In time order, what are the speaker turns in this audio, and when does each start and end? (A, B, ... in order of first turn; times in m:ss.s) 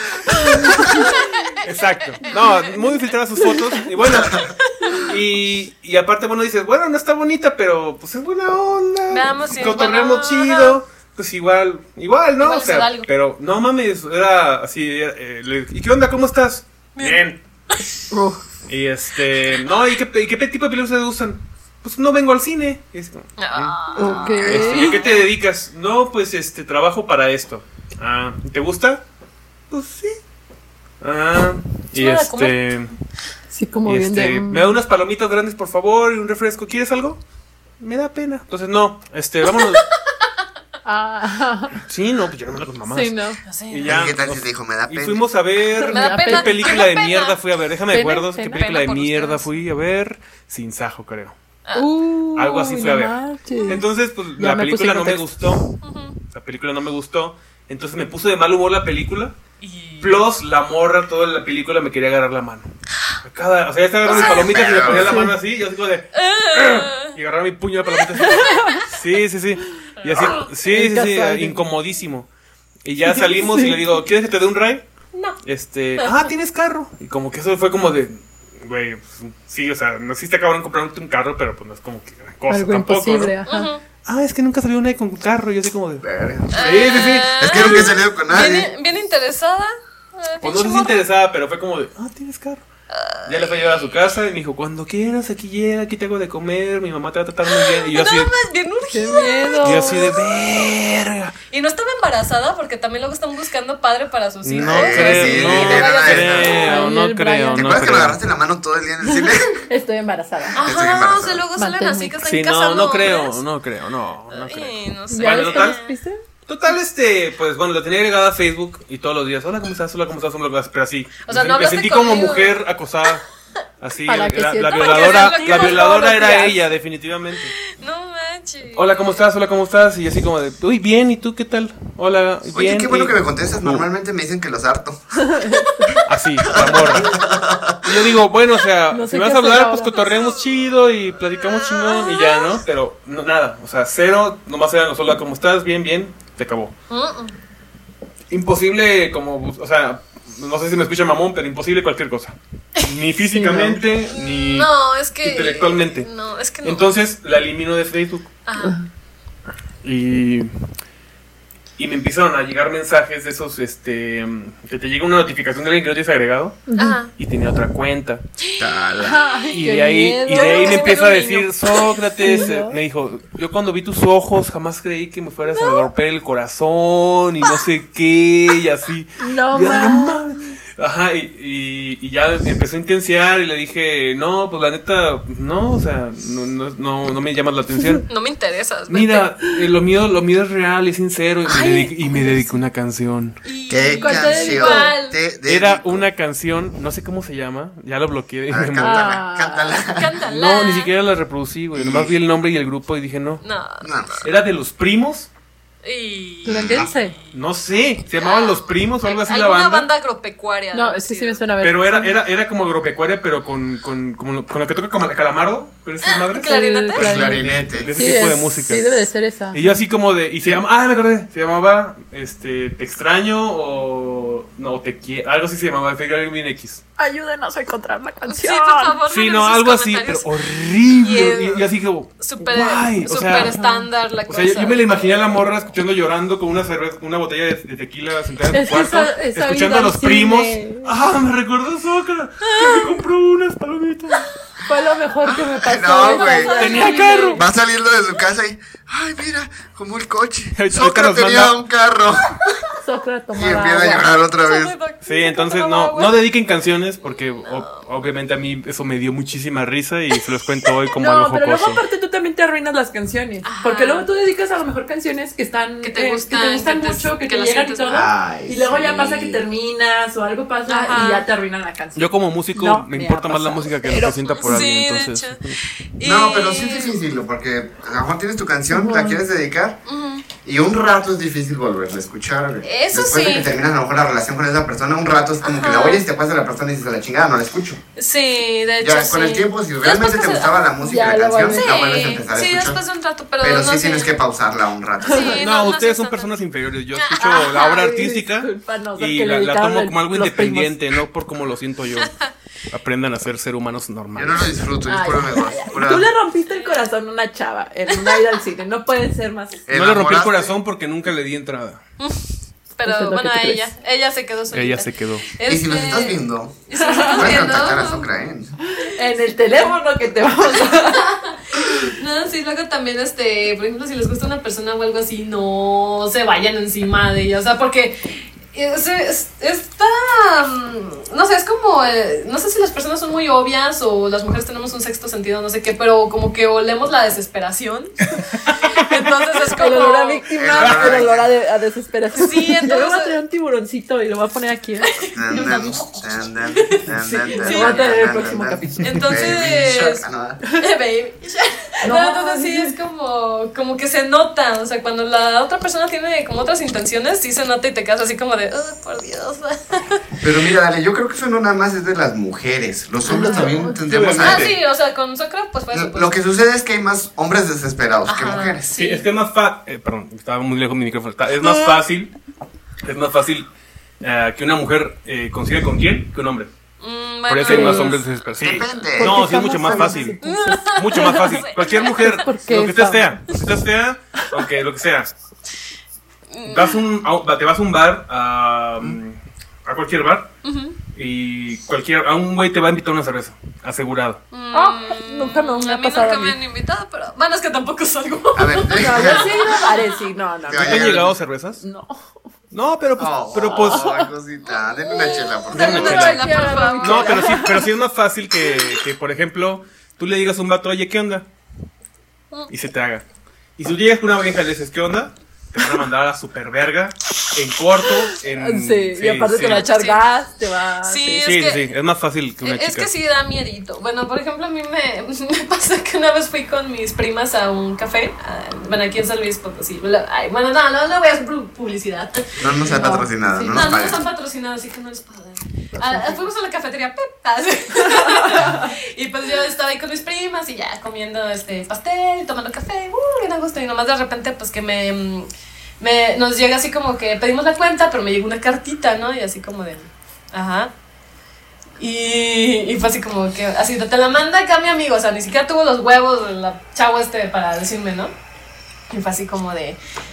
0:00.3-0:17.4 A
0:00.4-0:01.1 B
0:00.9-0:01.7 C
0:02.2-0:02.9 C
0:04.6-0:05.1 C
0:09.1-0:10.8 C
0:12.4-0:13.1 C
0:17.0-0:17.9 C
0:18.1-0:18.4 B
0:18.7-0:23.8 A
0:23.4-0:25.3 C
0:24.0-0:25.0 B
0:24.0-0:24.9 D
0:24.4-0:29.0 A
0:29.7-0:30.2 A
0:31.0-0:32.9 A
0:31.9-0:32.6 C
0:33.5-0:34.8 B
0:33.9-0:37.2 A
0:37.8-0:39.8 A
0:39.4-0:39.8 C
0:40.8-0:41.8 B
0:41.8-0:43.2 A
0:42.9-0:43.4 B
0:43.4-0:44.0 C
0:43.7-0:51.4 A
0:43.9-0:45.2 D
0:45.8-0:46.7 B
0:45.9-0:47.4 C
0:47.9-0:48.6 B
0:48.5-0:49.5 C
0:51.7-0:55.7 B
0:52.4-0:55.7 A
0:53.6-0:53.8 C
0:55.8-0:56.2 C
0:56.3-0:59.4 A
0:59.6-1:00.2 C
1:00.0-1:02.7 A
1:03.2-1:12.3 A
1:04.0-1:05.3 D
1:04.1-1:05.0 C
1:04.9-1:05.3 B
1:06.2-1:07.1 C
1:08.0-1:08.9 C
1:08.2-1:08.8 B
1:10.0-1:10.5 C
1:10.6-1:11.6 B
1:12.8-1:14.8 A
1:13.0-1:13.8 B
1:15.1-1:15.4 C
1:15.4-1:23.4 A
1:16.0-1:16.3 C
1:22.5-1:23.7 B
1:23.5-1:23.8 C
1:24.0-1:28.4 A
1:26.0-1:26.5 D
1:26.5-1:31.0 C
1:27.4-1:28.7 D
1:30.4-1:32.6 A
1:32.9-1:34.0 C
1:33.2-1:38.3 A
1:37.5-1:40.7 C
1:38.9-1:40.1 B
1:39.6-1:41.4 A
1:41.5-1:46.9 C
1:44.4-1:48.2 A
1:44.6-1:46.7 D
1:46.5-1:48.0 B
1:47.6-1:49.7 D
1:49.1-1:50.6 B
1:50.6-1:53.4 C
1:50.6-1:51.4 D
1:51.6-1:52.2 B
1:52.2-1:55.8 A
1:54.3-1:55.9 C
1:55.1-1:56.2 B
1:56.5-2:03.2 A
2:01.3-2:03.1 C
2:03.8-2:07.6 A
2:04.1-2:06.6 B
2:04.6-2:06.6 C
2:07.6-2:09.2 C
2:08.8-2:13.9 A
2:12.5-2:15.0 D
2:15.2-2:16.0 B
2:15.8-2:17.0 C
2:16.0-2:17.2 A
2:16.5-2:18.1 D
2:17.8-2:26.7 A
2:18.9-2:20.1 B
2:19.9-2:20.5 C
2:21.4-2:22.6 C
2:26.9-2:27.4 C
2:28.3-2:34.7 A
2:33.3-2:33.8 B
2:34.1-2:36.9 C
2:35.2-2:36.1 A
2:36.6-2:38.3 A
2:38.5-2:38.8 C
2:38.6-2:38.9 B
2:39.8-2:40.5 A
2:41.8-2:48.2 A
2:46.7-2:47.0 B
2:46.8-2:47.1 C
2:48.4-2:48.8 C
2:48.6-2:49.2 D
2:49.0-2:51.1 B
2:49.5-3:08.1 A
2:50.3-2:52.1 C
2:52.2-2:52.8 B
2:55.5-2:55.9 C
2:59.2-3:00.2 B
3:08.1-3:09.3 C
3:08.9-3:13.4 A
3:11.4-3:12.5 C
3:13.4-3:15.2 C
3:13.7-3:16.1 D
3:14.0-3:14.9 B
3:15.4-3:19.2 A
3:18.5-3:20.2 D
3:18.8-3:19.9 B
3:20.0-3:20.9 C
3:20.2-3:23.4 A
3:21.7-3:22.2 D
3:23.4-3:23.9 C
3:23.8-3:24.2 D
3:24.2-3:25.3 A
3:25.8-3:27.3 C
3:26.4-3:27.2 B
3:26.5-3:26.9 D
3:27.3-3:29.9 A
3:28.2-3:31.4 C
3:30.7-3:32.2 B
3:31.6-3:39.0 A
3:36.0-3:37.2 C
3:36.4-3:39.8 B
3:37.0-3:37.9 D
3:39.5-3:46.8 A
3:47.0-3:49.0 B
3:48.3-3:50.3 C
3:49.1-3:53.6 A
3:50.9-3:51.7 C
3:52.2-3:55.2 C
3:53.4-3:53.8 B
3:54.3-4:04.3 A
3:58.5-4:00.9 B
4:02.5-4:02.9 C
4:04.7-4:07.4 B
4:05.2-4:06.7 D
4:06.0-4:07.4 C
4:06.5-4:07.4 A
4:07.4-4:12.6 D
4:10.6-4:11.5 A
4:12.8-4:14.1 B
4:13.4-4:14.8 D
4:14.4-4:16.2 C
4:15.0-4:21.8 A
4:17.0-4:17.8 C
4:21.0-4:34.2 B
4:23.4-4:24.1 C
4:25.8-4:28.0 C
4:27.9-4:29.4 D
4:30.7-4:31.3 C
4:32.0-4:35.6 A
4:34.3-4:35.4 C
4:36.0-4:37.0 C
4:36.0-4:39.8 D
4:38.7-4:39.2 B
4:39.9-4:40.2 C
4:40.4-4:47.8 D
4:42.6-4:43.5 C
4:45.4-4:46.0 C
4:48.0-4:50.6 C
4:48.8-4:52.8 D
4:50.8-4:52.0 B
4:51.4-4:54.2 C
4:53.4-4:55.4 D
4:55.0-4:56.3 C
4:55.0-4:55.4 B
4:55.4-5:02.1 A
4:56.9-4:57.9 C
4:57.6-5:00.8 B
5:02.0-5:02.3 C
5:02.7-5:04.5 A
5:04.2-5:06.1 D
5:04.9-5:09.6 B
5:06.5-5:06.9 C
5:07.9-5:08.4 C
5:09.7-5:10.6 D
5:09.7-5:11.8 A
5:12.0-5:18.1 C
5:12.8-5:13.7 B
5:14.5-5:15.3 A
5:15.5-5:18.6 D
5:16.8-5:17.3 B
5:18.7-5:21.9 B
5:19.5-5:19.7 C
5:20.4-5:38.1 C
5:38.4-5:38.7 A
5:38.7-5:40.3 C
5:39.5-5:45.9 B
5:40.3-5:41.3 D
5:40.6-5:41.0 A
5:42.1-5:43.1 C
5:44.8-5:47.9 C
5:45.1-5:50.4 D
5:46.9-5:49.1 B
5:48.8-5:50.0 C
5:50.6-6:00.0 C
5:51.8-5:52.7 B
6:00.2-6:04.6 D
6:03.0-6:03.8 B
6:03.2-6:03.5 C
6:03.8-6:04.6 A
6:04.2-6:06.2 C
6:05.7-6:08.7 D
6:08.1-6:09.1 C
6:08.8-6:12.1 A
6:11.4-6:11.8 C
6:12.8-6:13.5 A
6:14.0-6:16.5 A
6:16.8-6:18.9 C
6:17.3-6:20.2 A
6:17.4-6:18.0 B
6:18.4-6:19.9 D
6:19.0-6:21.4 B
6:20.2-6:22.2 C
6:20.7-6:25.1 A
6:21.9-6:23.2 B
6:26.3-6:26.8 C
6:26.4-6:30.3 A
6:30.4-6:30.8 C
6:30.9-6:34.2 A
6:34.3-6:40.0 C
6:34.5-6:36.4 B
6:38.4-6:39.5 D
6:38.7-6:41.0 B
6:40.5-6:41.2 D
6:40.5-6:41.6 A
6:41.6-6:42.3 B
6:42.5-6:43.9 A
6:43.0-6:46.2 D
6:43.5-6:44.1 B
6:44.5-6:47.5 C
6:45.5-6:51.3 A
6:45.6-6:47.7 B
6:52.5-6:53.0 A
6:53.6-6:59.6 A
6:58.3-7:01.4 B
6:59.4-7:00.0 C
7:00.8-7:01.7 C
7:01.2-7:02.9 A
7:02.4-7:12.8 C
7:12.4-7:14.0 D
7:12.7-7:13.8 B
7:13.5-7:25.3 C
7:15.8-7:16.1 B
7:17.8-7:18.7 B
7:25.8-7:30.7 C
7:31.8-7:38.1 C
7:38.9-7:39.8 C